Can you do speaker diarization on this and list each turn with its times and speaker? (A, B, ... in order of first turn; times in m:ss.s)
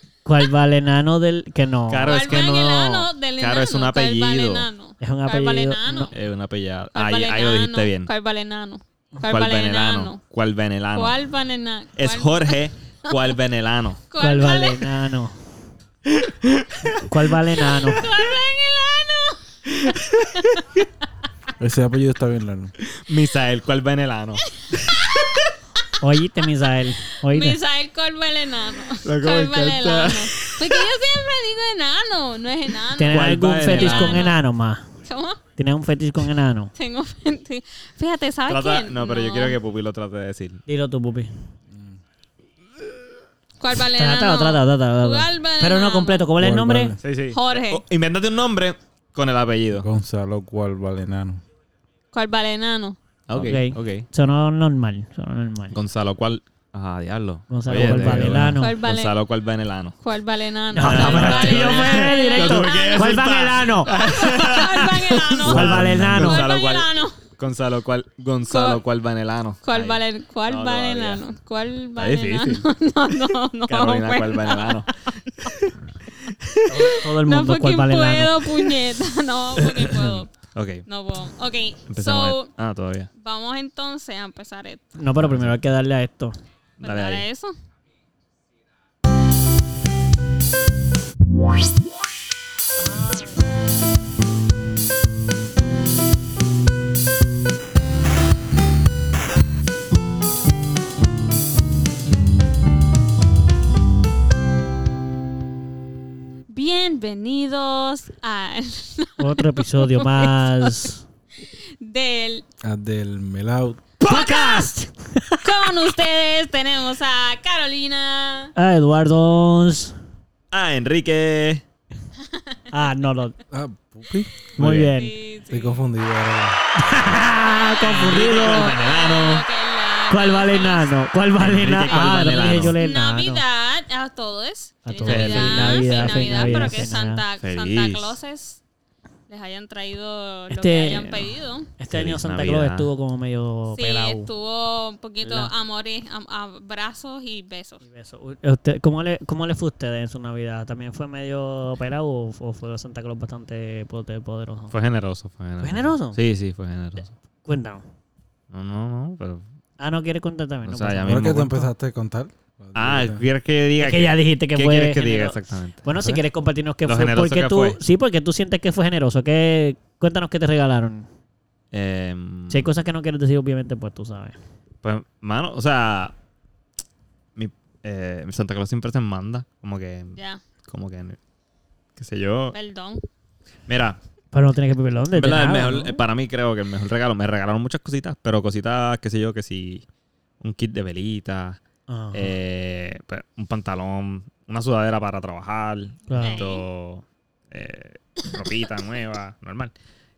0:00.2-0:02.4 A
0:01.9-0:04.7 B
0:02.1-0:06.1 C
0:05.0-0:06.1 A
0:06.1-0:08.1 B
0:07.0-0:10.2 C
0:09.3-0:11.2 B
0:10.9-0:13.3 C
0:12.0-0:14.0 B
0:14.1-0:14.9 C
0:14.2-0:15.4 A
0:16.1-0:17.0 B
0:17.0-0:18.1 A
0:17.8-0:20.0 C
0:19.8-0:20.7 B
0:21.6-0:22.7 D
0:22.8-0:25.5 B
0:26.0-0:27.6 A
0:27.3-0:34.4 C
0:29.0-0:30.6 B
0:33.0-0:34.9 A
0:33.1-0:34.3 B
0:35.0-0:35.4 C
0:35.6-0:36.7 A
0:36.8-0:39.6 C
0:38.5-0:40.6 B
0:40.7-0:41.3 A
0:41.7-0:42.0 D
0:43.6-0:46.3 C
0:44.0-0:47.0 A
0:46.4-0:47.0 D
0:47.0-0:49.9 B
0:47.3-0:47.8 C
0:49.7-0:51.4 D
0:52.1-0:53.0 C
0:53.3-0:54.1 B
0:53.4-0:55.8 A
0:55.7-1:00.0 B
0:57.5-0:58.8 A
0:57.9-0:58.6 D
0:58.6-0:59.2 C
1:00.0-1:07.2 C
1:00.7-1:03.9 A
1:00.8-1:11.2 B
1:05.5-1:06.5 D
1:05.5-1:06.4 A
1:08.5-1:08.8 C
1:09.6-1:15.5 C
1:12.0-1:12.7 B
1:13.7-1:16.7 B
1:16.7-1:18.6 A
1:16.7-1:20.3 C
1:19.7-1:20.8 B
1:20.9-1:22.5 C
1:21.9-1:23.1 B
1:23.2-1:24.9 C
1:25.0-1:26.4 A
1:25.2-1:25.6 B
1:26.8-1:27.2 B
1:26.8-1:27.6 C
1:46.5-1:50.9 C
1:49.2-1:51.0 A
1:51.6-1:52.4 C
1:52.6-1:53.8 D
1:54.0-1:55.7 A
1:54.0-1:54.7 C
1:55.4-1:58.5 C
1:58.6-2:00.0 A
2:00.5-2:01.6 B
2:02.3-2:02.6 C
2:02.7-2:03.4 A
2:03.5-2:04.3 D
2:04.6-2:05.1 A
2:04.6-2:05.0 B
2:04.8-2:05.8 C
2:05.5-2:07.2 D
2:06.8-2:08.8 A
2:07.4-2:10.9 C
2:07.8-2:09.4 B
2:10.1-2:13.4 A
2:11.4-2:12.8 B
2:12.6-2:18.6 C
2:14.9-2:17.2 A
2:15.0-2:18.2 B
2:19.3-2:21.7 C
2:20.5-2:21.3 A
2:21.8-2:24.3 A
2:21.9-2:22.9 B
2:23.7-2:27.8 C
2:27.8-2:34.8 A
2:34.7-2:37.1 B
2:35.6-2:36.2 A
2:37.5-2:37.8 A
2:38.5-2:39.4 B
2:39.8-2:41.6 A
2:40.7-2:41.6 B
2:41.0-2:43.2 D
2:42.8-2:45.8 B
2:43.8-2:51.1 A
2:46.0-2:46.2 D
2:46.9-2:47.8 B
2:51.7-2:52.7 B
2:52.5-2:54.4 A
2:54.8-2:56.2 B
2:57.4-3:01.2 B
3:00.2-3:00.4 C
3:02.0-3:02.6 B
3:02.5-3:03.0 C
3:03.7-3:04.0 B
3:04.3-3:06.0 A
3:05.1-3:09.8 B
3:10.4-3:11.6 B
3:11.9-3:12.4 A
3:12.1-3:19.7 B
3:16.1-3:16.4 A
3:16.2-3:16.6 C